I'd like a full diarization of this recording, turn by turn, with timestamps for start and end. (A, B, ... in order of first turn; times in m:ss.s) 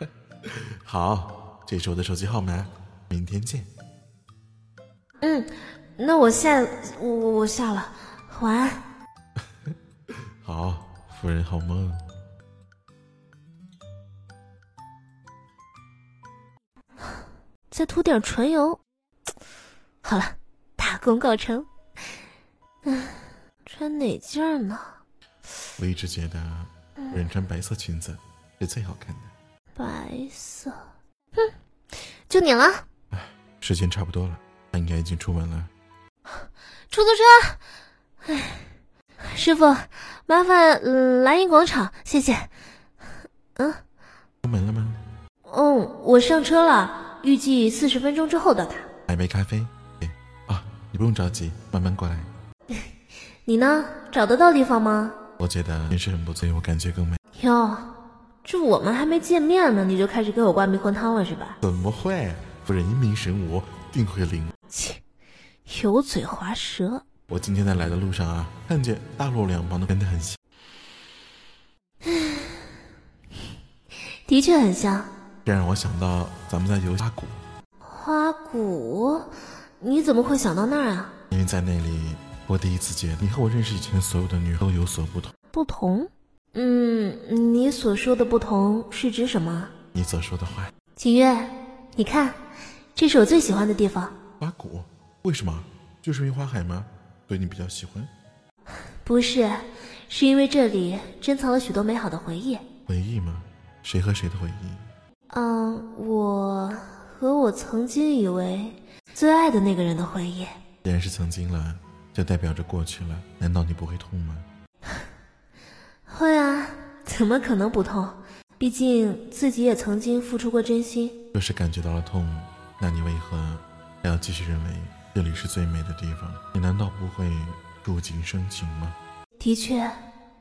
0:00.8-0:03.7 A
0:05.2-0:08.8 B
0:10.4-0:12.0 A
0:17.7-0:18.8 B
0:20.0-0:21.7 B
0:22.8-0:25.0 B
0:25.8-0:29.3 A
0:29.8-0:30.8 B
0:32.3-0:32.8 B
0:33.1-0:35.7 A
0:36.3-0:37.6 B
0:38.2-0:38.7 B
0:39.2-0:42.5 B
0:43.6-0:43.8 B
0:44.4-0:45.0 A
0:45.5-0:48.9 B
0:49.1-0:52.3 A
0:53.4-0:55.2 B
0:55.4-0:57.2 A
0:57.4-1:01.6 B
1:01.6-1:04.5 A
1:04.7-1:05.0 B
1:05.7-1:07.0 B
1:07.3-1:10.4 A
1:12.0-1:12.8 B
1:14.2-1:15.1 B
1:15.4-1:17.4 A
1:17.8-1:21.1 B
1:21.3-1:25.3 A
1:25.5-1:29.7 B
1:29.9-1:30.7 A
1:31.0-1:32.4 B
1:33.0-1:34.2 B
1:34.4-1:38.1 A
1:39.0-1:39.6 B
1:40.1-1:42.6 B
1:42.9-1:44.9 A
1:45.3-1:50.5 B
1:50.8-1:54.4 A
1:56.1-2:01.2 B
2:01.3-2:09.0 A
2:09.4-2:09.9 B